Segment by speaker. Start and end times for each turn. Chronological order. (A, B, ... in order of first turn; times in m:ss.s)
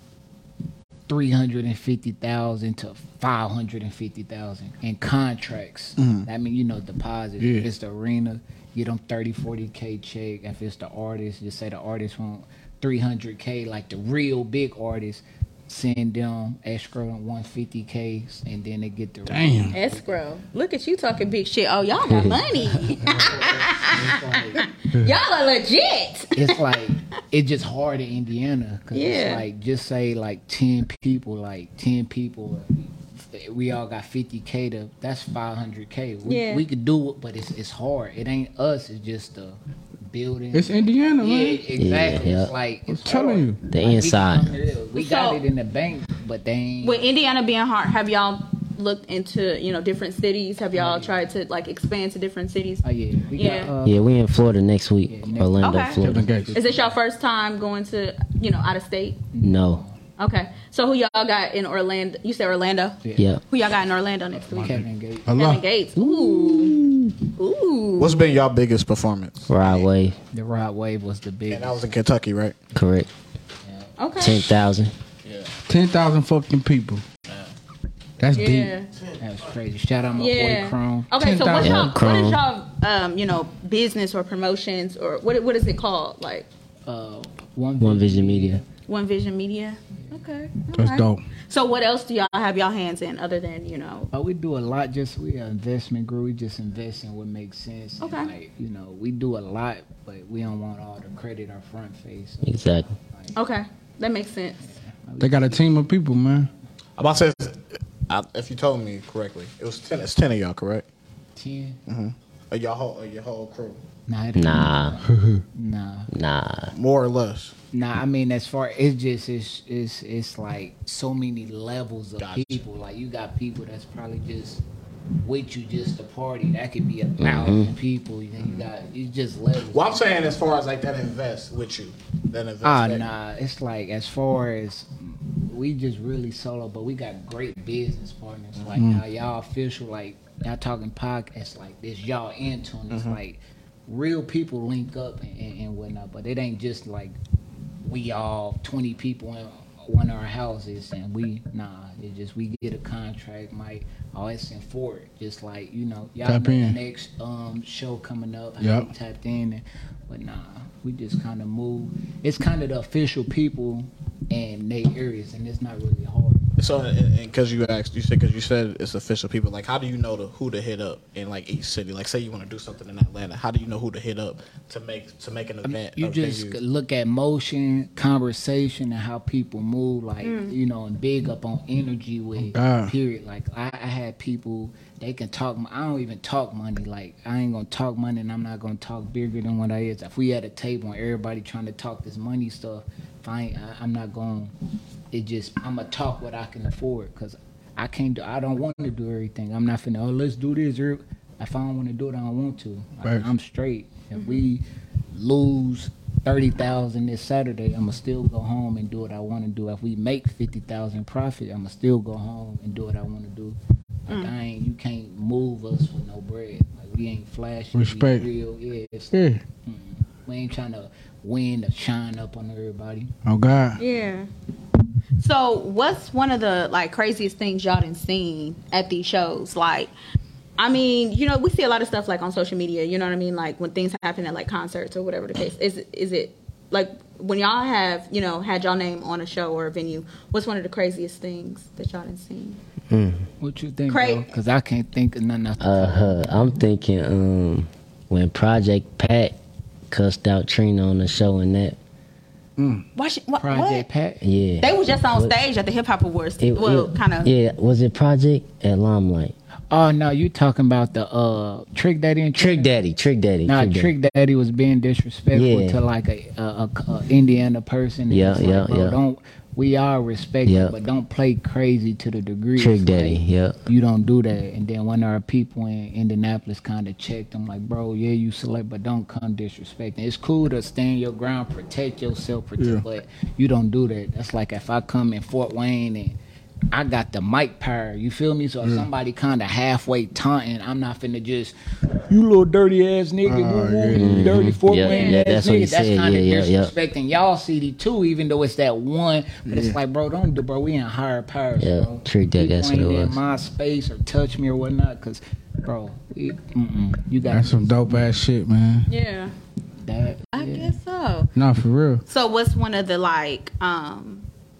0:01.1-0:20.2 A
0:07.4-0:07.7 B
0:19.3-0:19.8 B
0:19.7-0:26.6 C
0:22.1-0:22.4 D
0:22.7-0:24.6 A
0:26.4-0:47.1 A
0:28.9-0:29.4 C
0:36.2-0:36.6 C
0:40.5-0:41.6 B
0:41.8-0:42.5 D
0:42.9-0:43.6 B
0:43.7-0:44.5 D
0:45.0-0:45.4 C
0:46.8-0:53.7 C
0:50.7-0:51.2 A
0:52.8-0:54.0 A
0:53.8-0:56.3 D
0:55.1-0:56.9 A
0:55.6-0:56.0 C
0:56.0-0:56.6 B
0:56.5-0:59.2 C
0:59.3-1:00.0 A
0:59.4-0:59.8 D
1:00.2-1:04.8 C
1:03.0-1:03.3 A
1:04.4-1:05.3 A
1:04.6-1:07.1 B
1:05.4-1:06.8 C
1:07.4-1:08.2 C
1:08.0-1:09.9 E
1:09.5-1:10.2 D
1:10.3-1:11.9 A
1:11.5-1:12.6 E
1:12.8-1:13.1 D
1:13.6-1:13.9 A
1:14.0-1:14.5 C
1:14.2-1:14.9 D
1:15.7-1:17.0 B
1:18.2-1:18.8 B
1:18.4-1:18.9 C
1:19.2-1:21.1 A
1:20.2-1:26.5 C
1:21.2-1:21.9 B
1:21.6-1:22.4 D
1:26.9-1:28.6 A
1:27.8-1:28.6 D
1:28.9-1:34.1 C
1:30.8-1:31.2 B
1:34.1-1:43.4 A
1:38.0-1:38.3 C
1:42.4-1:42.9 D
1:43.4-1:44.6 C
1:44.6-1:45.7 A
1:45.2-1:46.5 B
1:47.0-1:50.8 E
1:51.4-1:51.8 A
1:51.9-1:53.8 E
1:54.1-1:56.1 A
1:54.4-1:55.0 D
1:55.1-1:55.4 B
1:56.1-1:56.7 D
1:56.7-1:57.5 E
1:57.7-2:04.6 A
2:02.2-2:02.6 E
2:05.2-2:10.1 A
2:07.2-2:07.7 D
2:08.4-2:08.7 E
2:09.7-2:13.1 E
2:12.6-2:27.2 A
2:18.6-2:18.8 E
2:18.8-2:19.0 B
2:22.9-2:23.2 E
2:27.8-2:46.5 A
2:36.2-2:36.8 B
2:38.6-2:38.9 B
2:46.6-2:56.6 E
2:55.6-3:14.5 A
3:00.2-3:00.6 C
3:02.4-3:02.9 B
3:15.1-3:43.1 A
3:23.0-3:23.3 B
3:24.2-3:24.4 C
3:37.7-3:38.3 B
3:39.1-3:39.4 B
3:43.2-3:43.8 B
3:43.8-3:44.3 C
3:45.2-3:49.9 C
3:50.6-4:02.6 C
4:02.9-4:03.2 D
4:03.4-4:06.2 A
4:03.9-4:04.3 C
4:05.6-4:09.4 D
4:09.9-4:11.8 D
4:12.6-4:12.8 B
4:13.0-4:13.9 C
4:13.4-4:14.2 A
4:14.2-4:15.4 D
4:14.6-4:17.3 C
4:16.4-4:19.3 D
4:19.7-4:22.7 A
4:22.4-4:23.9 D
4:23.4-4:46.2 A
4:25.3-4:25.8 D
4:28.1-4:29.0 D
4:30.4-4:30.8 D
4:32.6-4:33.6 D
4:42.6-4:42.8 B
4:46.7-4:51.5 A
4:48.6-4:48.9 B
4:52.1-5:08.0 A
4:53.2-4:54.3 B
4:53.9-4:56.7 D
4:54.8-4:55.2 C
4:59.5-4:59.8 B
5:01.6-5:03.2 D
5:07.2-5:08.9 B
5:08.9-5:09.3 C
5:09.8-5:10.8 A
5:10.3-5:11.3 C
5:11.4-5:12.0 B
5:12.1-5:14.3 C